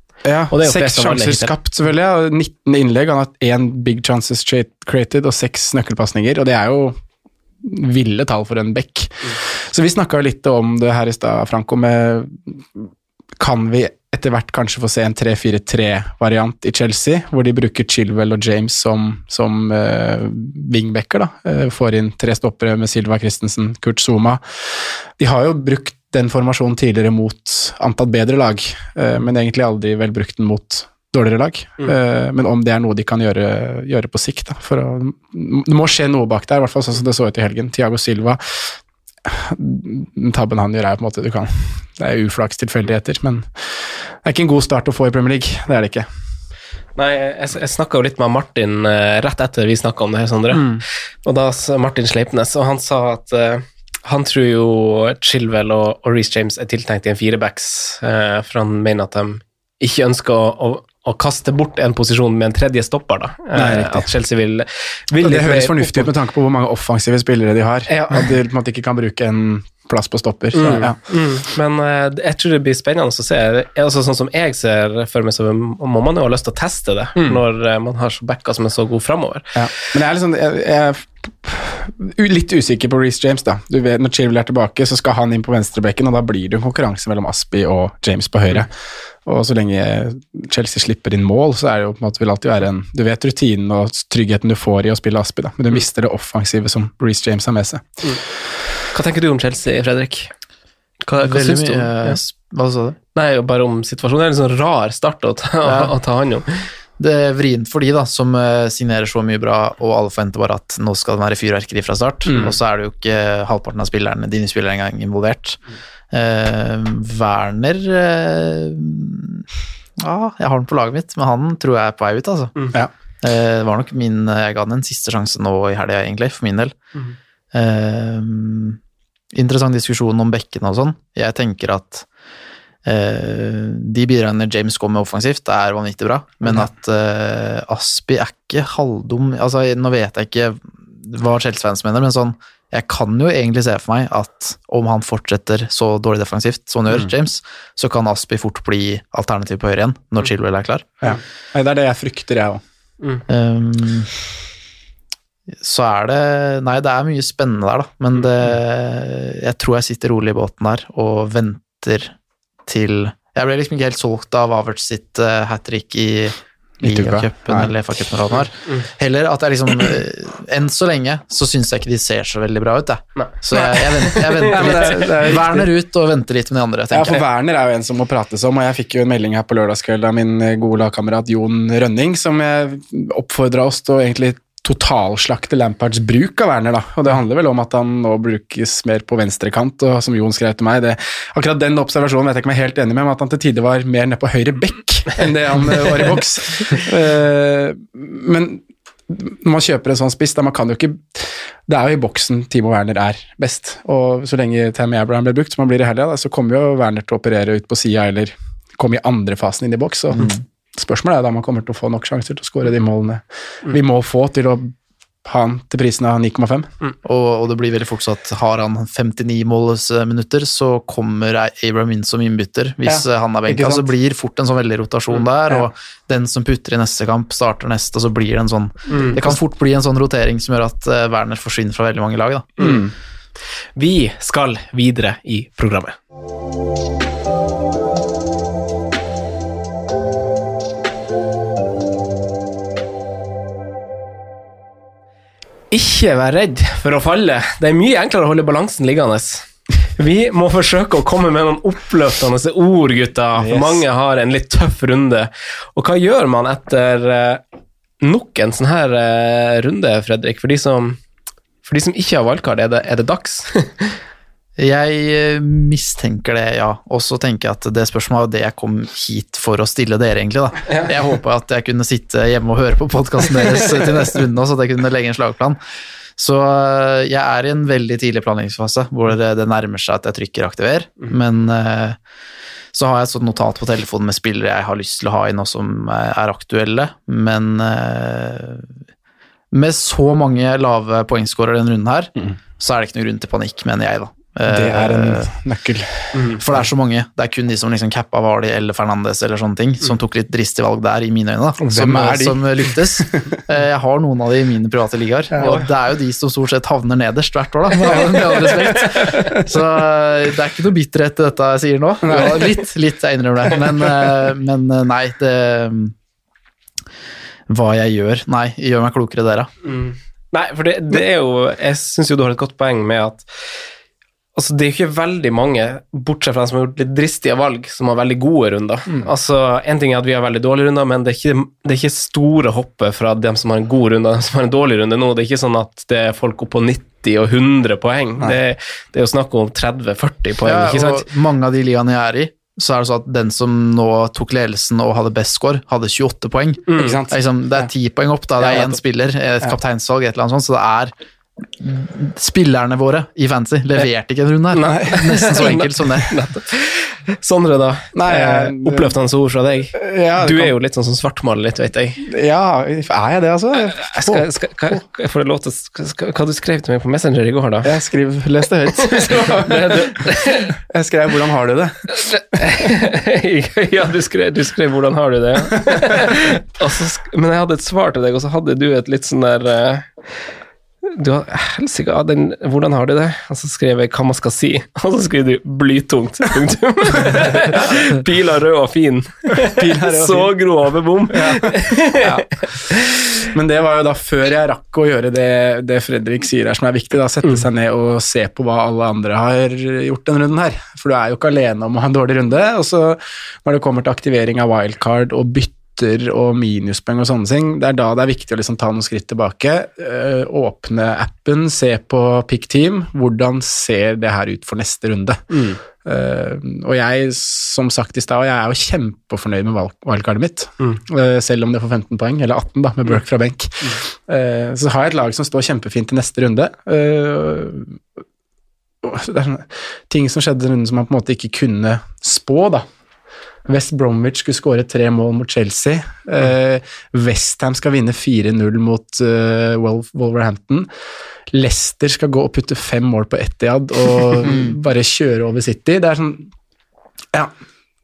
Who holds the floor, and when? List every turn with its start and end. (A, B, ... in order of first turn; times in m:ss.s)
0:00.2-0:07.0 A
0:00.5-0:01.5 B
0:07.6-0:46.1 A
0:47.0-1:06.1 B
0:50.5-0:50.8 A
1:03.5-1:04.1 A
1:05.1-1:11.0 A
1:07.9-1:08.3 B
1:10.5-1:19.6 B
1:19.6-1:28.7 A
1:29.2-1:38.2 A
1:38.9-1:40.3 B
1:41.0-1:42.2 B
1:41.2-1:43.0 C
1:43.1-1:46.6 B
1:45.6-1:45.9 C
1:47.0-1:55.6 C
1:52.2-1:52.5 A
1:56.1-1:59.5 C
2:00.0-2:02.5 C
2:03.2-2:06.8 C
2:07.5-2:08.8 C
2:09.3-2:12.0 C
2:12.8-2:30.9 C
2:31.0-2:32.6 A
2:33.3-2:34.1 C
2:35.6-2:42.1 C
2:42.6-2:57.2 C
2:46.8-2:47.7 A
2:53.2-2:55.0 B
2:54.5-2:55.7 A
2:56.9-3:34.7 A
3:35.2-3:36.7 A
3:37.0-3:52.5 C
3:42.8-3:43.9 A
3:48.9-3:49.2 B
3:52.6-3:52.9 A
3:53.8-3:56.0 B
4:05.7-4:17.4 B
4:13.4-4:13.8 A
4:18.0-4:21.0 B
4:21.6-4:23.9 B
4:24.6-4:35.6 C
4:36.2-4:42.0 C
4:42.7-4:48.7 C
4:49.5-4:55.3 C
4:54.5-4:56.2 A
4:56.4-5:15.9 C
5:01.6-5:03.4 A
5:05.3-5:05.6 A
5:08.6-5:09.2 B
5:09.2-5:09.5 A
5:12.0-5:12.5 A
5:17.5-5:19.5 C
5:19.6-5:23.5 B
5:24.4-5:41.0 B
5:40.4-5:50.9 C
5:46.7-5:47.0 B
5:46.8-5:47.2 A
5:51.6-5:56.1 C
5:54.6-6:02.0 B
5:54.6-5:55.5 A
5:57.9-5:58.9 A
5:59.7-6:00.5 A
6:02.0-6:04.2 A
6:03.7-6:07.7 B
6:07.6-6:10.1 A
6:08.8-6:10.6 B
6:10.7-6:11.8 A
6:11.9-6:20.1 B
6:20.8-6:33.0 B
6:27.6-6:27.8 A
6:29.5-6:30.4 A
6:31.1-6:32.3 A
6:33.3-7:07.8 A
6:55.3-6:55.6 B
7:08.8-7:12.6 A
7:13.4-7:20.7 A
7:21.3-7:26.3 A
7:24.2-7:24.6 C